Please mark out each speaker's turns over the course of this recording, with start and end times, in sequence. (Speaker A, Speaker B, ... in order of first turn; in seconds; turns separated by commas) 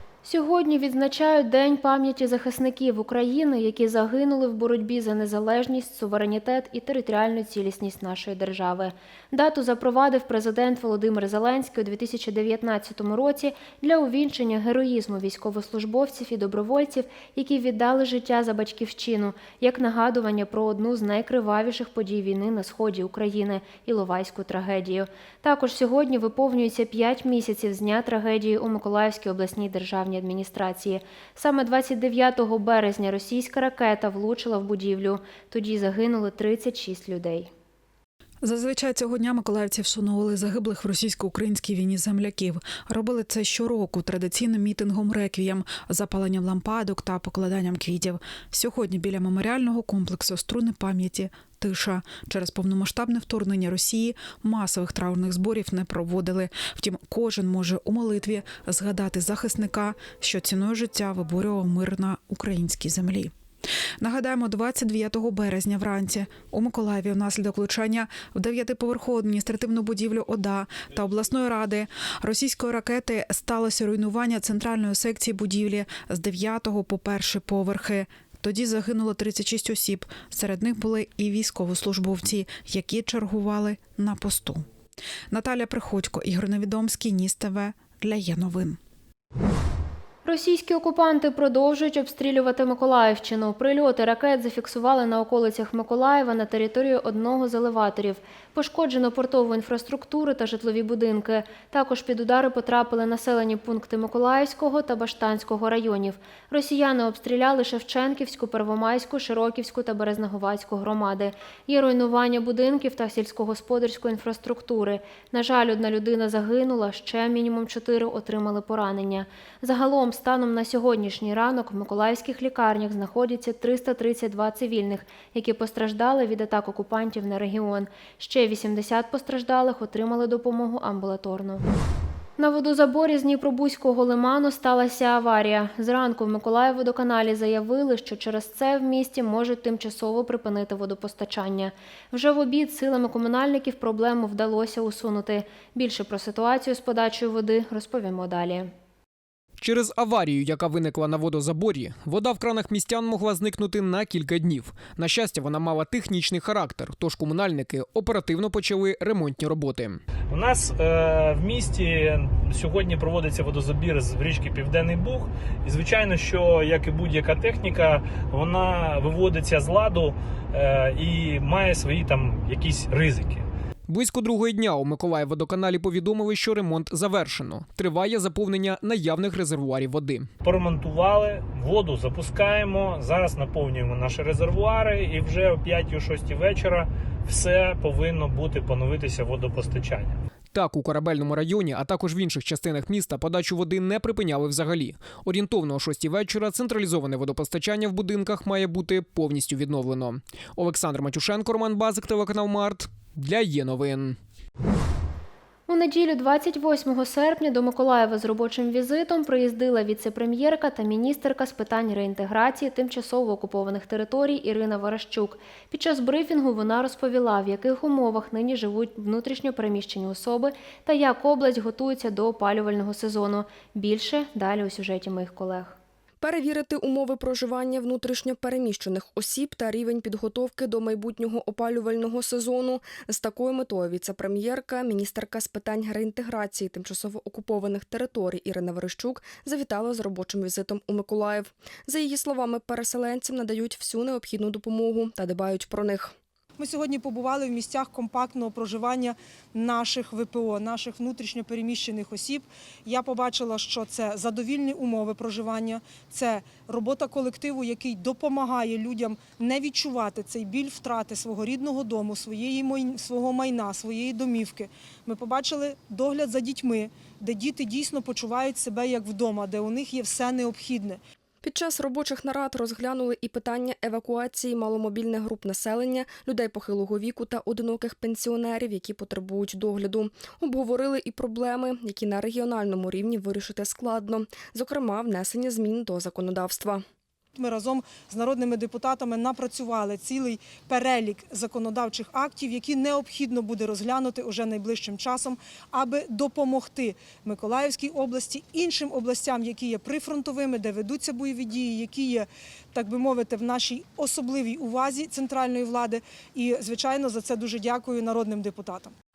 Speaker A: 0.2-37.5, Speaker B: 38.4-63.3, Speaker B: 64.0-84.7, Speaker B: 85.3-88.8, Speaker A: 90.2-131.7, Speaker A: 132.4-148.7, Speaker C: 149.6-160.0, Speaker D: 160.3-173.5, Speaker C: 173.9-180.3, Speaker D: 180.4-190.2, Speaker C: 190.5-204.2, Speaker A: 205.7-225.8, Speaker E: 226.2-246.1, Speaker F: 246.6-271.0, Speaker E: 271.4-286.8, Speaker F: 287.4-308.9